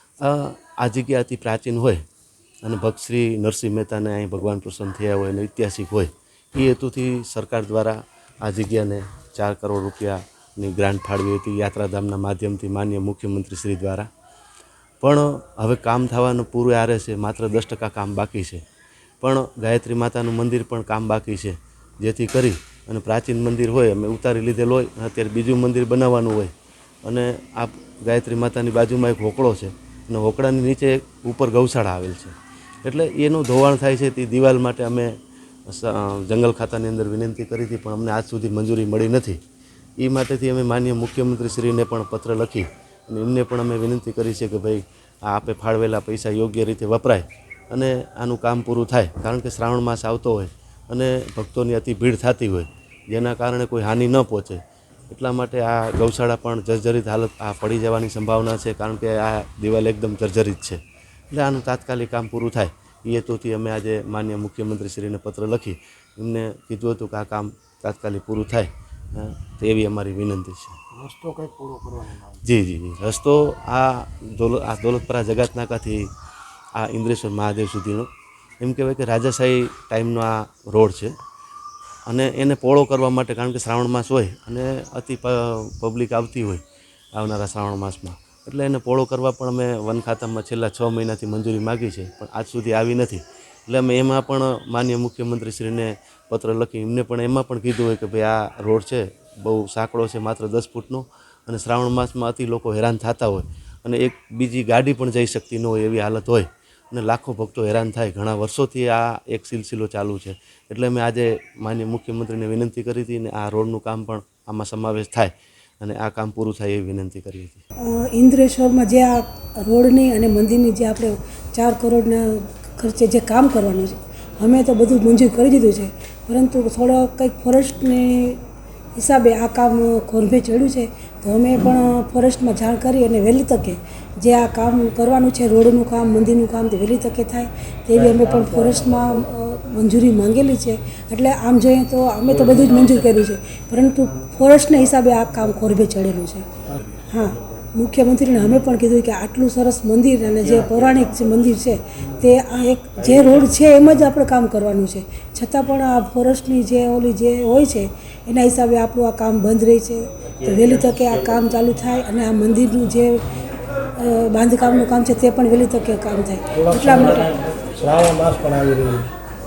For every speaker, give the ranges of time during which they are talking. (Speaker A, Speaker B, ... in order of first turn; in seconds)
Speaker A: 0.2-2.0, 2.6-14.1, 15.0-18.6, 19.2-26.5, 27.1-35.1, 35.7-39.4, 40.0-70.8, 72.4-76.1, 76.8-78.1, 78.6-81.1, 82.1-86.6, 87.2-117.6
Speaker B: 70.9-72.4, 138.0-139.1, 142.3-143.0, 150.4-151.3, 153.0-153.5, 160.4-161.2, 166.6-169.1
Speaker C: 117.8-128.4, 128.9-146.5, 147.1-163.2, 163.9-167.3